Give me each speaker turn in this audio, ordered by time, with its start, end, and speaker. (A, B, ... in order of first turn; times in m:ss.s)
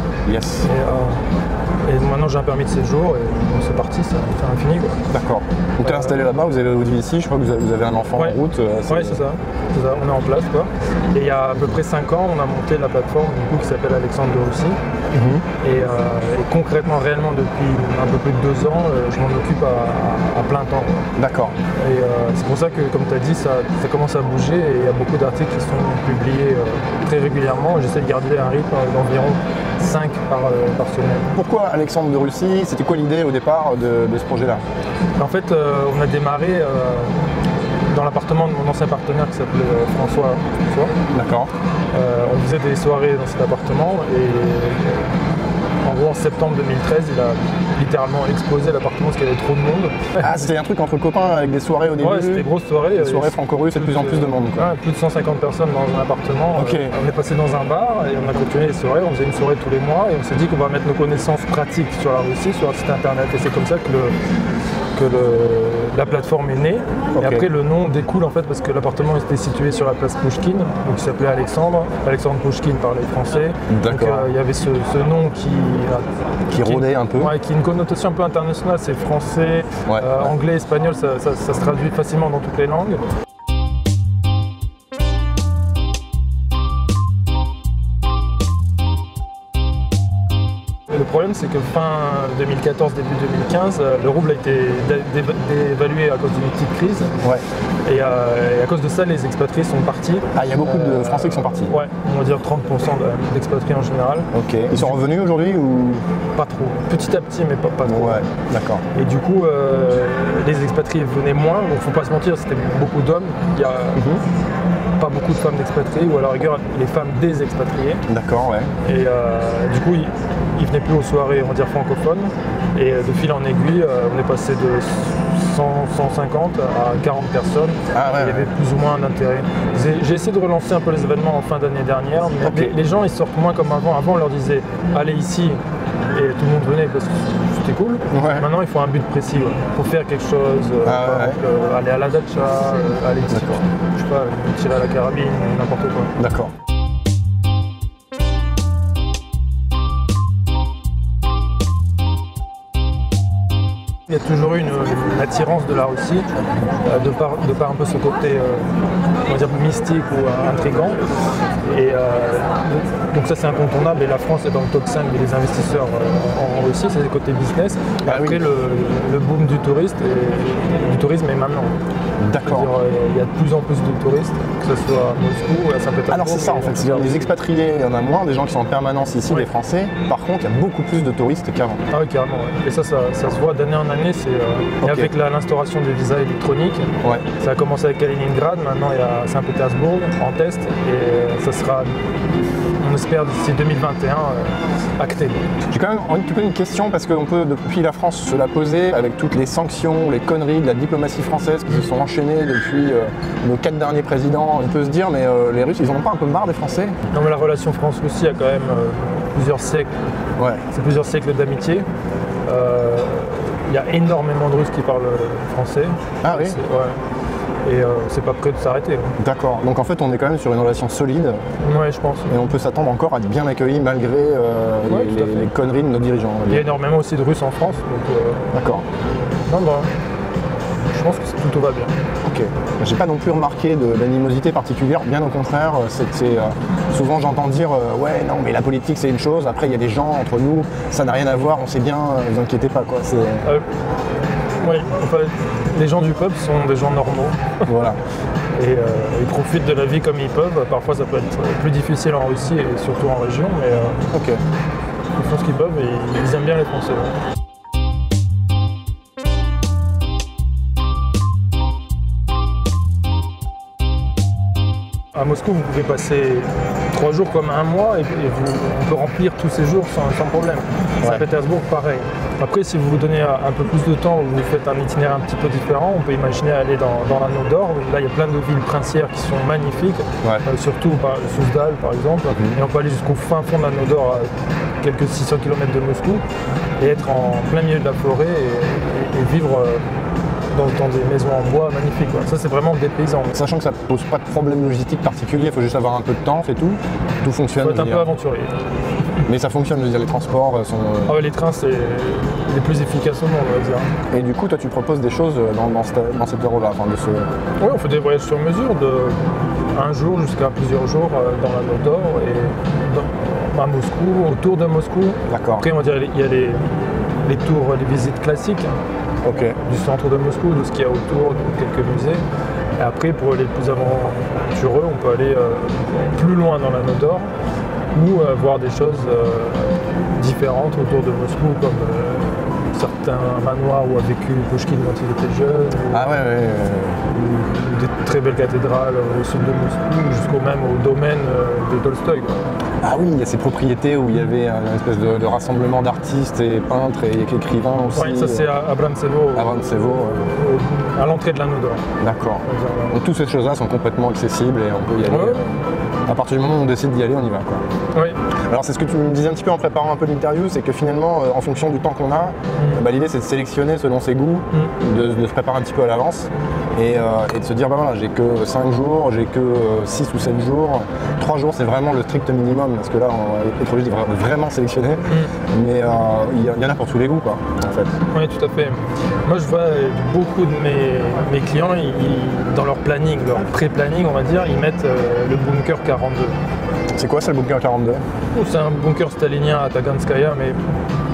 0:00.2-0:00.7 A
0:00.6-0:01.2 B
0:01.8-0:05.0 B
0:05.1-0:09.2 A
0:05.8-0:06.2 B
0:08.1-0:14.8 B
0:15.1-0:15.4 A
0:15.6-0:21.1 B
0:21.2-0:21.6 A
0:21.8-0:31.3 B
0:31.4-0:34.6 A
0:35.2-0:37.3 B
0:37.9-0:40.9 B
0:41.1-0:41.5 A
0:41.9-0:45.1 B
0:45.8-0:50.5 B
0:50.2-0:54.7 A
0:52.0-1:04.1 B
0:56.5-0:56.9 A
1:04.9-1:23.0 B
1:07.2-1:07.4 A
1:13.7-1:14.3 A
1:16.5-1:17.3 A
1:19.8-1:20.3 A
1:30.9-1:37.1 B
1:37.8-1:45.0 B
1:40.3-1:41.7 A
1:44.3-1:46.0 A
1:46.4-1:48.3 B
1:47.8-1:48.8 A
1:48.9-1:54.0 B
1:54.0-1:54.2 A
1:55.0-1:58.0 B
1:58.1-1:58.7 A
1:58.8-2:15.6 B
2:07.9-2:08.5 A
2:12.4-2:12.7 A
2:16.1-2:26.1 B
2:18.1-2:18.5 A
2:20.8-2:21.4 A
2:23.3-2:23.6 A
2:26.2-2:26.5 A
2:34.1-2:36.3 B
2:36.8-2:38.6 B
2:39.2-2:41.0 B
2:41.6-2:51.7 B
2:48.0-2:48.5 A
2:52.2-2:52.7 A
2:52.4-2:57.3 B
2:56.1-3:01.8 A
3:01.9-3:11.9 B
3:04.8-3:05.1 A
3:12.8-3:15.4 B
3:15.7-3:27.0 A
3:27.1-3:29.9 B
3:30.4-3:30.6 A
3:30.7-3:31.8 B
3:32.4-3:37.0 B
3:36.2-3:36.6 A
3:37.6-3:39.1 B
3:39.2-3:41.4 A
3:41.6-3:42.3 B
3:42.3-3:46.7 A
3:44.9-3:45.5 B
3:46.5-3:48.6 B
3:48.5-3:48.8 A
3:49.5-3:49.9 B
3:50.9-3:51.9 B
3:52.2-4:03.5 A
4:04.6-4:07.7 B
4:07.6-4:08.0 A
4:08.6-4:14.0 B
4:14.1-4:14.4 A
4:15.1-4:17.2 B
4:25.1-4:44.3 B
4:42.3-4:42.6 A
4:44.8-4:46.2 B
4:46.8-4:49.8 B
4:50.5-4:53.3 B
4:53.3-4:58.1 A
4:57.6-4:58.5 B
4:59.2-5:01.2 A
5:01.0-5:03.9 B
5:04.1-5:07.3 A
5:07.6-5:18.7 B
5:15.3-5:15.6 A
5:19.2-5:19.6 A
5:19.4-5:22.2 B
5:22.8-5:27.3 B
5:27.9-5:36.1 B
5:35.9-5:37.2 A
5:37.1-5:42.4 B
5:42.8-5:48.5 A
5:47.9-5:51.8 B
5:49.3-5:50.3 A
5:52.0-5:57.6 A
5:52.4-5:53.0 B
5:55.0-5:55.4 B
5:57.9-5:58.2 B
5:58.5-6:15.0 A
6:02.6-6:02.8 B
6:15.1-6:15.3 B
6:15.5-6:17.9 A
6:18.1-6:26.4 B
6:27.0-6:28.0 A
6:28.3-6:30.6 B